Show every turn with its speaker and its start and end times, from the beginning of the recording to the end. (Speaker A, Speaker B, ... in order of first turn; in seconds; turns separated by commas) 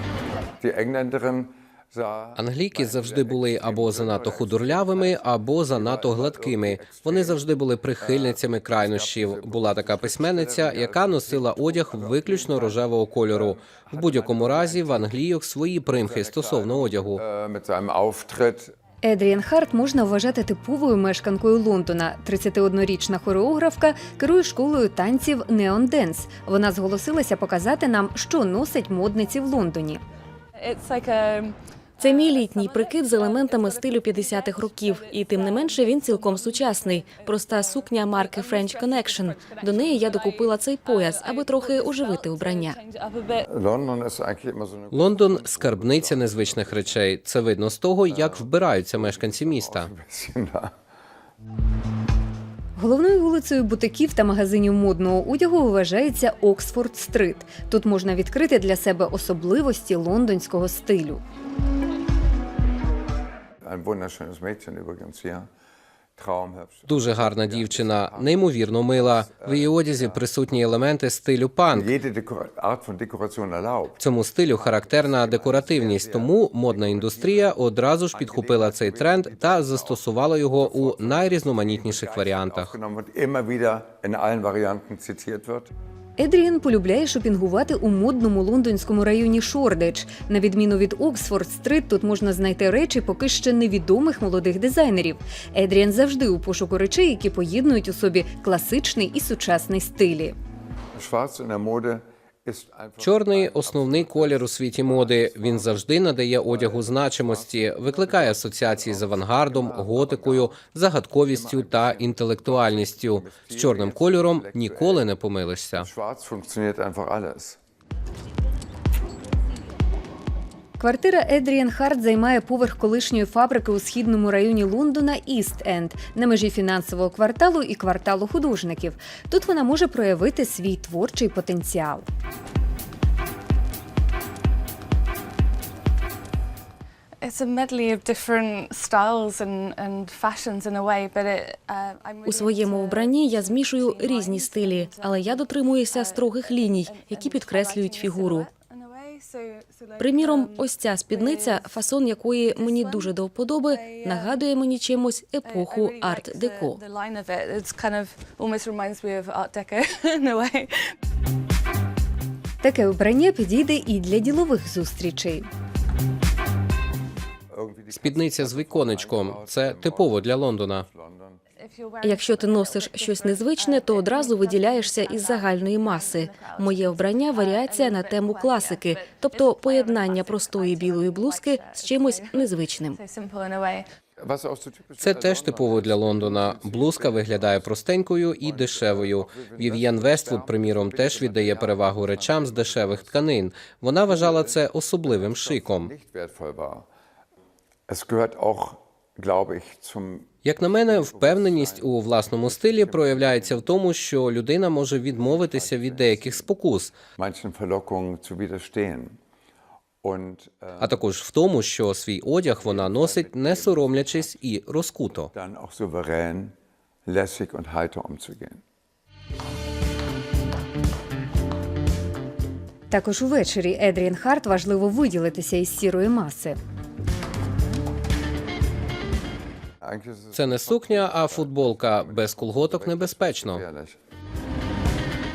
Speaker A: 0.6-7.4, Speaker B: 2.4-17.2, Speaker A: 8.0-15.1, Speaker A: 15.9-18.7, Speaker C: 19.0-30.0, Speaker D: 30.6-43.5, Speaker E: 32.0-42.8, Speaker A: 43.4-47.0, Speaker B: 44.9-49.9, Speaker A: 48.1-50.7, Speaker C: 52.8-61.2, Speaker A: 63.6-65.5, Speaker A: 66.2-70.2, Speaker B: 66.9-71.9, Speaker A: 71.7-77.6, Speaker B: 74.0-82.7, Speaker A: 78.1-80.0, Speaker A: 80.6-85.7, Speaker C: 86.2-100.3, Speaker A: 101.0-110.6, Speaker B: 103.0-115.9, Speaker A: 111.2-115.0, Speaker A: 115.8-117.6, Speaker C: 120.8-132.0, Speaker D: 137.2-151.8, Speaker E: 142.2-148.5, Speaker E: 150.0-156.8, Speaker D: 152.3-154.4, Speaker D: 155.4-160.9, Speaker C: 162.6-165.4, Speaker A: 167.5-171.4, Speaker B: 167.9-170.8, Speaker D: 171.6-183.8, Speaker E: 172.0-183.0, Speaker A: 184.2-193.2, Speaker B: 185.0-195.9, Speaker A: 194.1-196.9, Speaker A: 197.9-203.7, Speaker B: 200.4-206.9, Speaker A: 205.1-206.5, Speaker A: 207.2-209.2, Speaker A: 210.0-211.0, Speaker B: 210.8-215.3, Speaker A: 212.6-214.3, Speaker A: 215.3-216.5, Speaker A: 217.1-218.6, Speaker C: 222.9-226.6, Speaker A: 229.8-234.0, Speaker B: 230.3-233.6